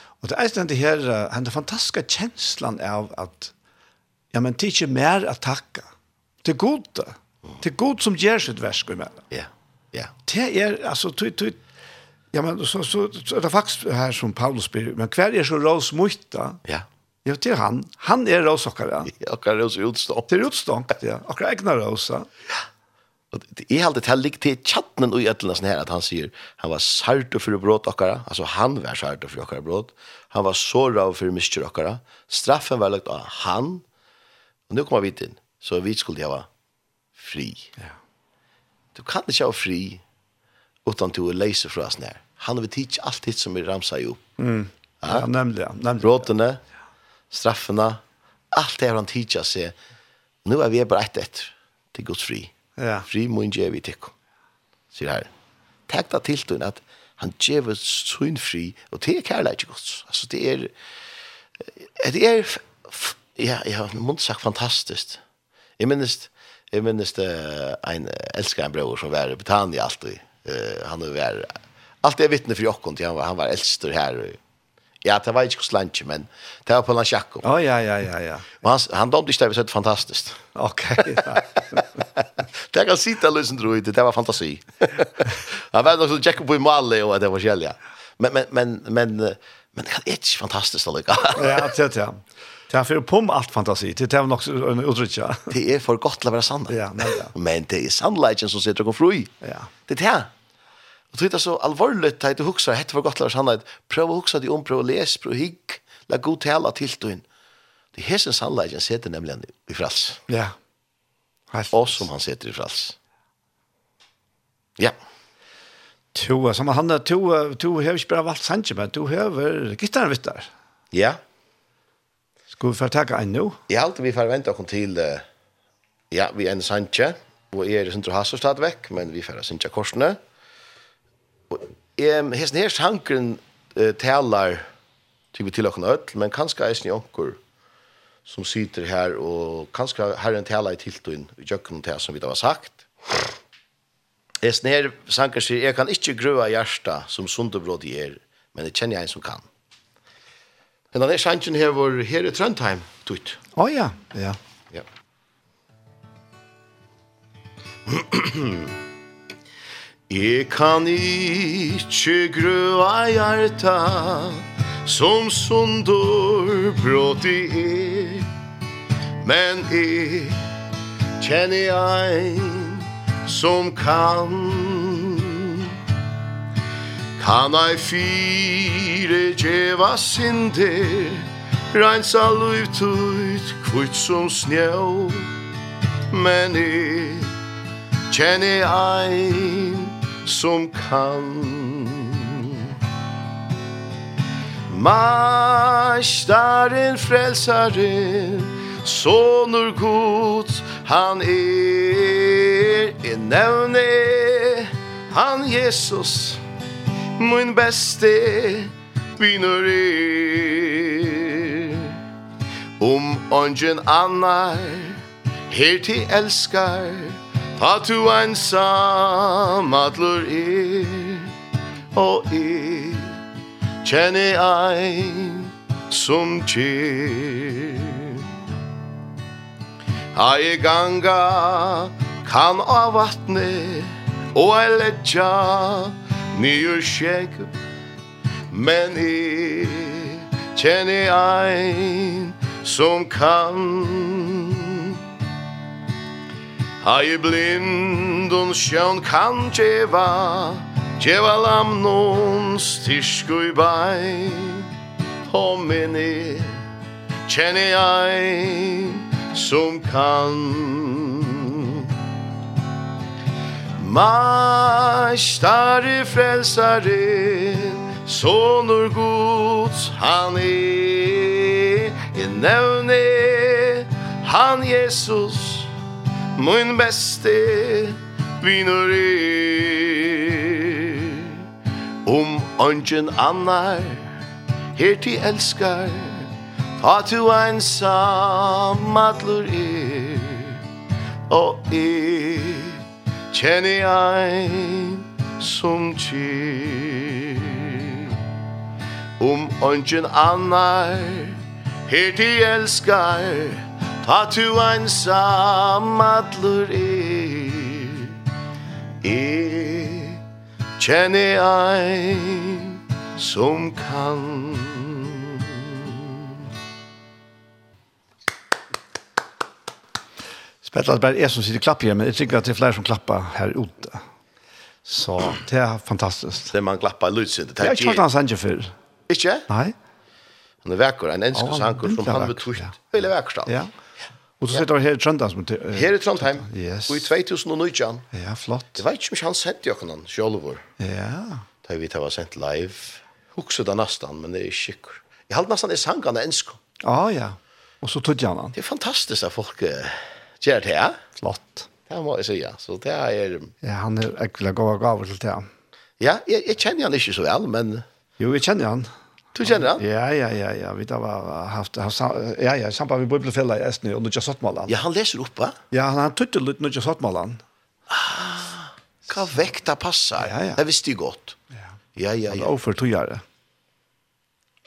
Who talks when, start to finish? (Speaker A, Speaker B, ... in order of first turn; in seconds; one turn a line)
Speaker A: 0.2-3.5
Speaker A: 4.3-5.9
Speaker A: 6.4-9.2
Speaker B: 9.3-10.1
Speaker A: 10.2-11.6
Speaker A: 12.3-16.6
Speaker A: 17.2-19.1
Speaker B: 19.1-20.3
Speaker A: 20.3-22.3
Speaker B: 23.3-33.8
Speaker B: 34.7-36.5
Speaker B: 37.1-37.7
Speaker B: 38.9-40.0
Speaker B: 40.8-44.2
Speaker A: 44.4-46.2
Speaker B: 45.0-45.3
Speaker B: 46.0-46.6
Speaker B: 47.3-48.0
Speaker B: 48.5-49.7
Speaker B: 50.4-52.5
Speaker A: 52.8-53.1
Speaker B: 53.1-54.1
Speaker B: 54.9-55.3
Speaker B: 55.9-60.7
Speaker B: 61.8-65.2
Speaker B: 65.8-74.4
Speaker B: 75.0-77.5
Speaker A: 77.4-78.5
Speaker B: 78.6-80.4
Speaker A: 80.5-81.8
Speaker B: 81.0-91.7
Speaker A: 91.3-95.5
Speaker B: 95.5-99.3
Speaker A: 96.7-97.3
Speaker A: 99.4-99.7
Speaker B: 99.9-100.3
Speaker B: 101.1-107.2
Speaker B: 107.9-110.2
Speaker A: 110.3-110.5
Speaker A: 111.5-112.0
Speaker B: 111.7-113.0
Speaker A: 116.1-120.5
Speaker B: 120.9-121.2
Speaker A: 122.5-123.6
Speaker B: 123.7-125.2
Speaker B: 126.1-130.2
Speaker B: 131.5-134.6
Speaker B: 135.3-137.4
Speaker B: 138.2-143.3
Speaker B: 144.4-149.4
Speaker B: 150.9-153.4
Speaker A: 153.6-154.4
Speaker B: 157.8-158.7
Speaker B: 160.1-168.3
Speaker B: 169.2-170.4
Speaker B: 171.2-175.8
Speaker B: 177.2-185.3
Speaker B: 186.1-187.3
Speaker B: 188.1-192.8
Speaker B: 194.7-206.4
Speaker B: 207.1-212.0
Speaker B: 212.8-221.3
Speaker B: 221.9-223.2
Speaker B: 223.8-228.2
Speaker B: 230.1-237.5
Speaker B: 238.5-245.0
Speaker B: 246.8-254.7
Speaker B: 255.2-256.6
Speaker B: 257.3-261.9
Speaker B: 263.8-275.7
Speaker B: 276.3-281.4
Speaker B: 282.0-284.2
Speaker B: 284.7-290.6
Speaker B: 291.3-298.2
Speaker B: 299.2-308.2
Speaker B: 309.0-310.2
Speaker B: 310.8-316.4
Speaker A: 320.6-324.0
Speaker A: 324.9-326.5
Speaker B: 326.5-328.0
Speaker A: 327.6-328.7
Speaker B: 329.1-329.5
Speaker A: 329.5-329.7
Speaker B: 330.6-333.5
Speaker A: 331.3-332.7
Speaker A: 333.4-333.7
Speaker A: 334.4-337.1
Speaker B: 335.7-338.0
Speaker A: 338.1-338.8
Speaker B: 338.8-340.6
Speaker A: 340.8-341.4
Speaker B: 341.6-346.6
Speaker A: 346.8-348.5
Speaker B: 348.5-351.0
Speaker A: 351.2-351.7
Speaker B: 351.9-353.5
Speaker A: 353.6-355.5
Speaker B: 356.0-357.8
Speaker A: 358.2-358.9
Speaker B: 359.3-359.8
Speaker A: 359.4-364.8
Speaker B: 364.7-365.6
Speaker A: 365.7-367.4
Speaker B: 367.9-371.4
Speaker A: 370.2-370.6
Speaker B: 371.9-372.5
Speaker A: 372.3-373.2